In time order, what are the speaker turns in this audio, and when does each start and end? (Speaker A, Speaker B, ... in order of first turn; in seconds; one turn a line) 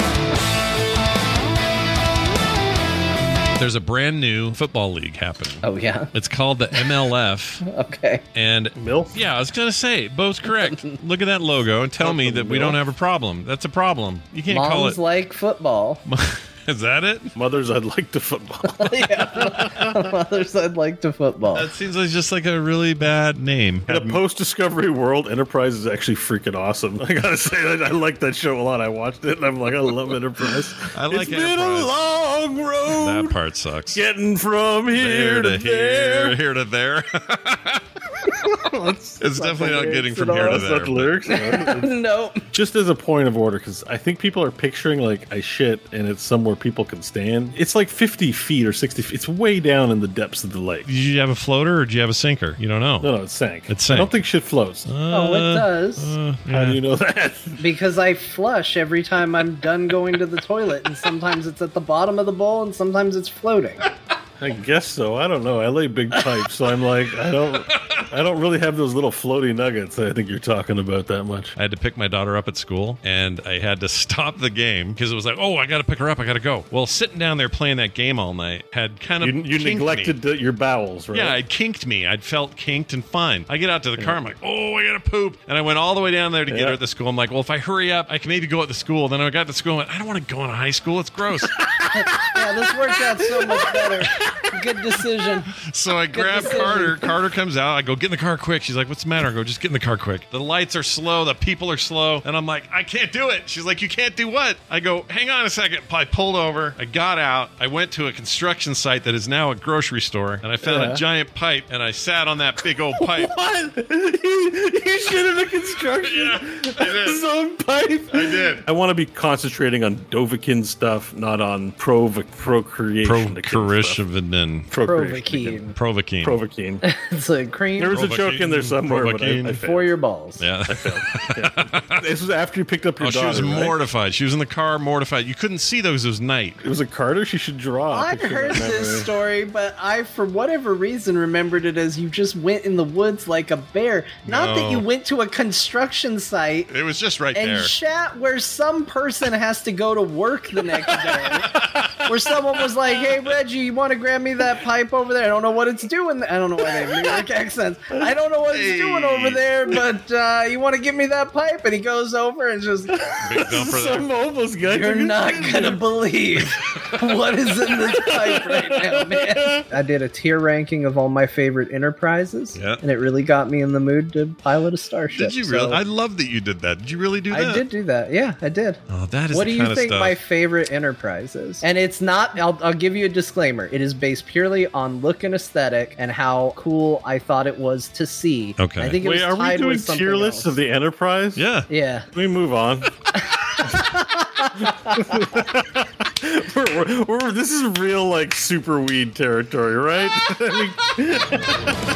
Speaker A: 3.5-7.6
Speaker B: 5.6-6.1
Speaker B: 7.6-8.2
Speaker A: 8.3-15.0
Speaker C: 8.8-9.2
Speaker C: 12.0-12.8
Speaker B: 14.5-16.0
Speaker A: 16.0-17.3
Speaker C: 17.4-20.1
Speaker B: 18.7-21.7
Speaker A: 21.5-24.2
Speaker C: 23.9-33.4
Speaker A: 30.9-31.9
Speaker A: 32.9-34.0
Speaker C: 33.9-36.4
Speaker A: 34.9-37.8
Speaker C: 38.6-39.2
Speaker A: 39.2-41.1
Speaker B: 39.2-40.7
Speaker C: 40.3-42.0
Speaker B: 41.3-42.5
Speaker C: 42.5-50.9
Speaker A: 50.9-53.1
Speaker C: 53.0-54.9
Speaker A: 53.7-54.1
Speaker A: 54.8-56.8
Speaker B: 55.1-56.1
Speaker C: 56.5-57.6
Speaker B: 57.6-63.9
Speaker C: 64.4-71.5
Speaker A: 67.6-68.0
Speaker A: 71.5-80.2
Speaker C: 79.2-81.4
Speaker A: 81.1-91.6
Speaker C: 86.5-86.8
Speaker C: 91.5-94.4
Speaker B: 91.9-95.5
Speaker A: 95.6-113.3
Speaker B: 96.1-97.1
Speaker C: 110.6-111.0
Speaker C: 113.0-124.0
Speaker A: 116.0-117.2
Speaker A: 118.1-118.7
Speaker A: 123.0-124.8
Speaker C: 124.7-125.5
Speaker B: 124.8-125.8
Speaker A: 125.3-126.4
Speaker C: 126.2-126.8
Speaker B: 126.8-128.0
Speaker C: 127.8-129.9
Speaker A: 127.9-129.6
Speaker B: 129.6-130.5
Speaker A: 130.4-132.0
Speaker C: 130.7-133.8
Speaker A: 133.0-136.6
Speaker C: 136.6-139.1
Speaker B: 137.9-146.7
Speaker A: 144.2-144.9
Speaker A: 146.7-147.7
Speaker B: 147.3-163.7
Speaker A: 150.7-152.3
Speaker A: 158.5-159.4
Speaker C: 163.0-165.8
Speaker A: 163.2-164.1
Speaker B: 164.6-175.8
Speaker C: 167.9-169.7
Speaker A: 172.5-172.8
Speaker A: 175.1-177.6
Speaker B: 177.3-178.8
Speaker A: 178.9-180.2
Speaker B: 179.3-190.6
Speaker A: 188.6-189.0
Speaker C: 189.0-191.4
Speaker A: 191.4-191.7
Speaker B: 191.7-192.1
Speaker C: 192.1-192.9
Speaker B: 193.1-195.2
Speaker C: 194.6-201.7